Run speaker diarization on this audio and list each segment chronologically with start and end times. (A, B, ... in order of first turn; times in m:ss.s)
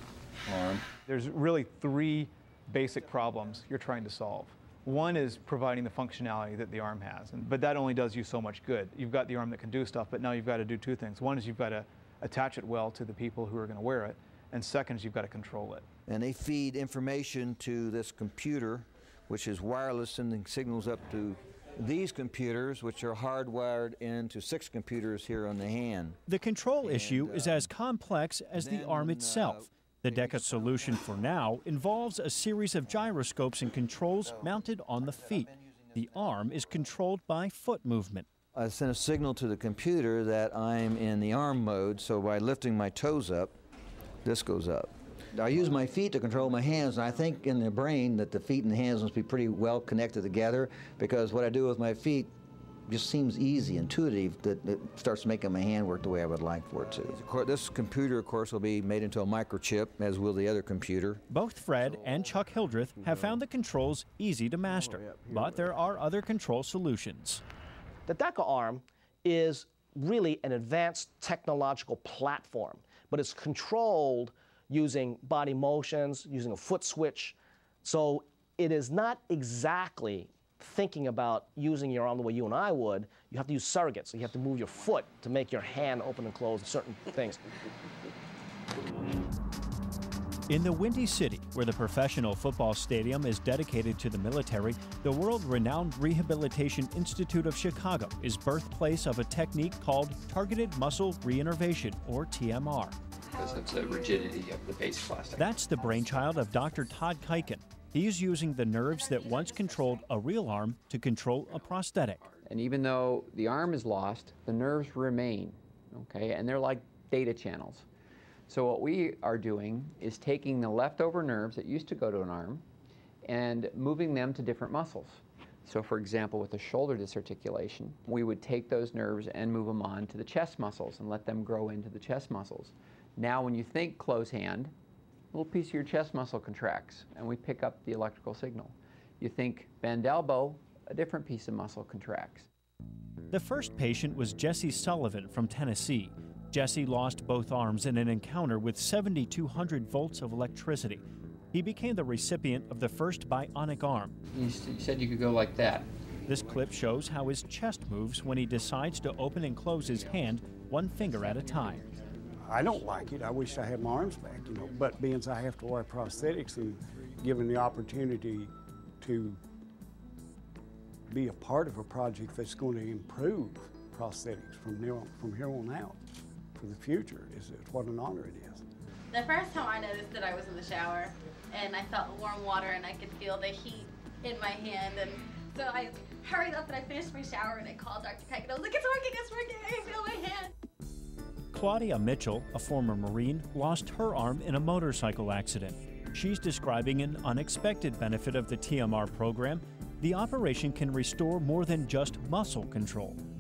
0:00.5-0:00.8 A
0:01.1-0:15.8 B
0:16.1-0:26.2 A
0:26.3-0:38.3 C
0:26.8-0:27.7 A
0:28.5-0:30.8 A
0:34.3-0:36.1 A
0:38.6-0:43.5 A
0:44.2-0:52.3 A
0:52.9-1:01.2 A
1:01.3-1:07.4 C
1:03.1-1:03.4 A
1:05.0-1:05.6 A
1:08.1-1:27.4 D
1:30.5-1:43.0 C
1:43.3-1:45.6 E
1:45.4-1:52.2 C
1:52.4-1:57.9 E
1:58.5-2:02.6 E
2:03.3-2:14.7 E
2:15.3-2:22.5 E
2:23.3-2:34.2 C
2:34.3-2:35.9 E
2:36.3-2:41.8 C
2:42.4-2:49.4 F
2:51.1-2:56.0 F
2:56.6-2:58.6 F
2:59.1-3:10.5 G
3:11.5-3:23.2 C